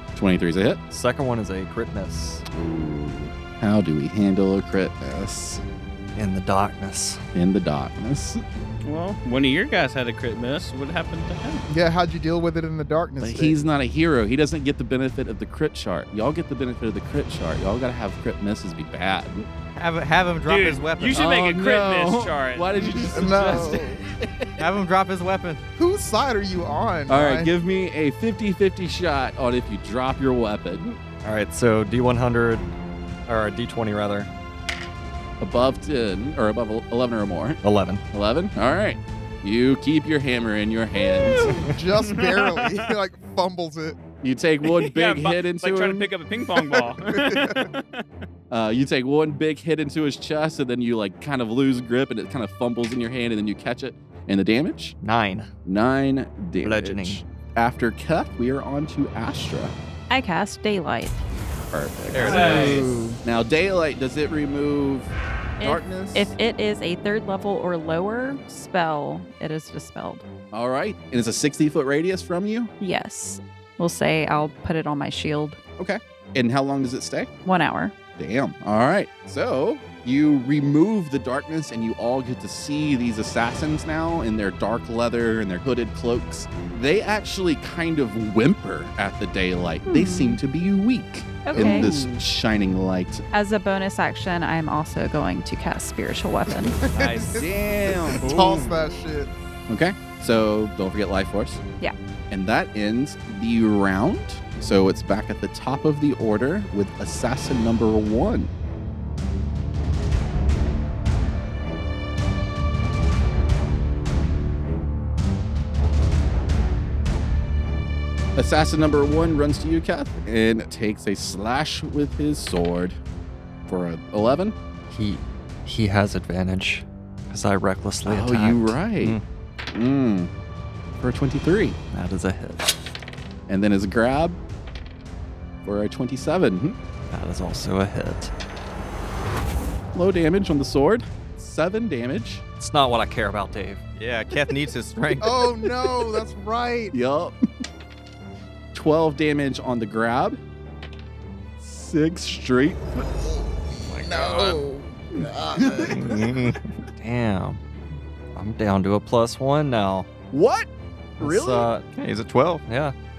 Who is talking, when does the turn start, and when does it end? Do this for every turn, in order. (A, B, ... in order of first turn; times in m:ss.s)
0:00.2-0:00.8 A
0:00.9-0:02.4 B
0:02.5-0:05.6 A
0:06.2-0:07.2 B
0:07.4-0:08.4 A
0:08.8-0:11.7 C
0:11.7-0:13.6 D
0:13.2-0:19.5 A
0:19.7-0:21.2 E
0:20.5-0:23.5 C
0:21.1-0:24.6 A
0:23.1-0:24.0 D
0:24.6-0:25.6 E
0:25.8-0:27.5 D
0:27.1-0:31.0 A
0:31.2-0:32.7 B
0:33.3-0:34.3 B
0:35.4-0:37.6 A
0:37.6-0:38.0 B
0:38.1-0:41.6 A
0:41.2-0:44.0 D
0:42.2-0:42.8 C
0:44.2-0:46.1 A
0:44.7-0:48.0 C
0:47.1-0:47.7 D
0:48.5-0:55.0 A
0:55.0-0:55.5 B
0:55.6-0:59.8 A
0:56.6-0:57.2 B
1:00.1-1:01.2 F
1:01.7-1:06.3 A
1:02.1-1:02.9 E
1:02.2-1:03.2 D
1:02.3-1:02.8 C
1:05.6-1:10.2 F
1:10.5-1:12.7 A
1:12.8-1:15.6 F
1:15.8-1:17.3 A
1:17.4-1:17.9 F
1:18.2-1:33.2 A
1:29.9-1:30.4 F
1:31.4-1:31.9 F
1:31.5-1:32.1 D
1:33.3-1:36.8 F
1:36.8-1:39.3 D
1:36.9-1:38.4 A
1:39.7-1:41.6 A
1:42.3-1:48.5 A
1:58.4-2:03.0 A
2:03.7-2:04.6 A
2:04.9-2:08.9 B
2:08.0-2:09.2 A
2:09.7-2:10.3 A
2:11.0-2:11.8 A
2:11.9-2:12.7 B
2:13.5-2:14.4 A
2:15.6-2:16.8 A
2:17.1-2:18.3 B
2:19.9-2:22.4 A
2:22.6-2:23.8 B
2:24.0-2:25.4 E
2:25.2-2:27.0 D
2:26.9-2:27.4 A
2:28.7-2:30.4 A
2:31.6-2:33.1 A
2:33.9-2:34.6 E
2:34.0-2:36.2 D
2:35.6-2:36.2 A
2:35.9-2:36.6 E
2:37.0-2:37.6 B
2:38.4-2:40.1 B
2:40.3-2:40.7 A
2:41.2-2:41.7 A
2:41.2-2:41.9 B
2:41.9-2:42.6 E
2:42.7-2:42.9 B